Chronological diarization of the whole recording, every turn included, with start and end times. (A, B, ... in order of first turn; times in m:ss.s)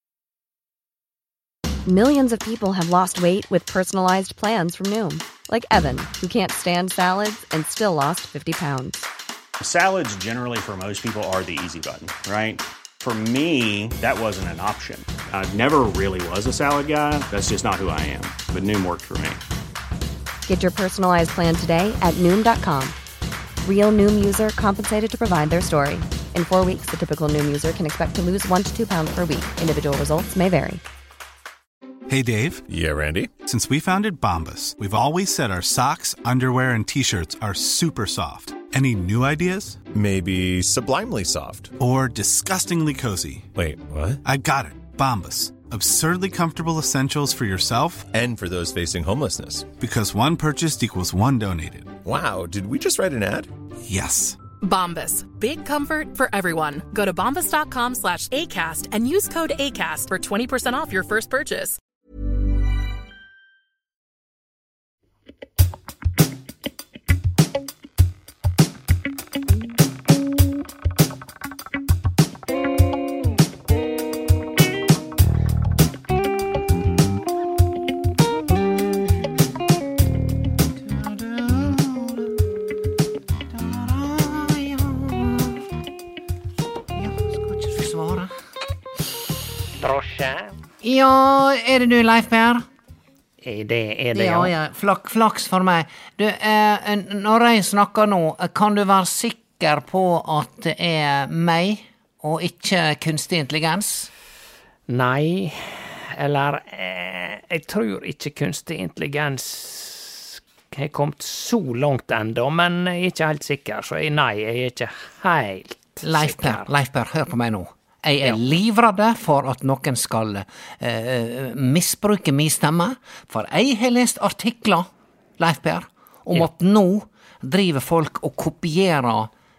0:01.9-0:09.0 A
0:09.6-0:19.4 B
0:20.5-0:23.0 A
0:23.6-0:30.8 A
0:32.1-0:32.6 C
0:32.7-0:33.3 D
0:33.4-0:39.8 C
0:39.9-0:41.7 D
0:41.8-0:43.5 C
0:43.5-0:44.2 D
0:44.2-0:48.1 C
0:48.1-0:49.7 D
0:49.8-0:52.0 C
0:52.0-0:53.5 D
0:53.9-0:54.4 C
0:54.6-1:01.8 E
1:20.8-1:22.4 F
1:23.5-1:25.7 F
1:26.9-1:28.3 F
1:29.8-1:30.5 G
1:30.8-1:32.6 F
1:33.4-1:34.5 G
1:34.1-1:44.1 F
1:44.9-1:56.7 G
1:56.0-2:09.3 F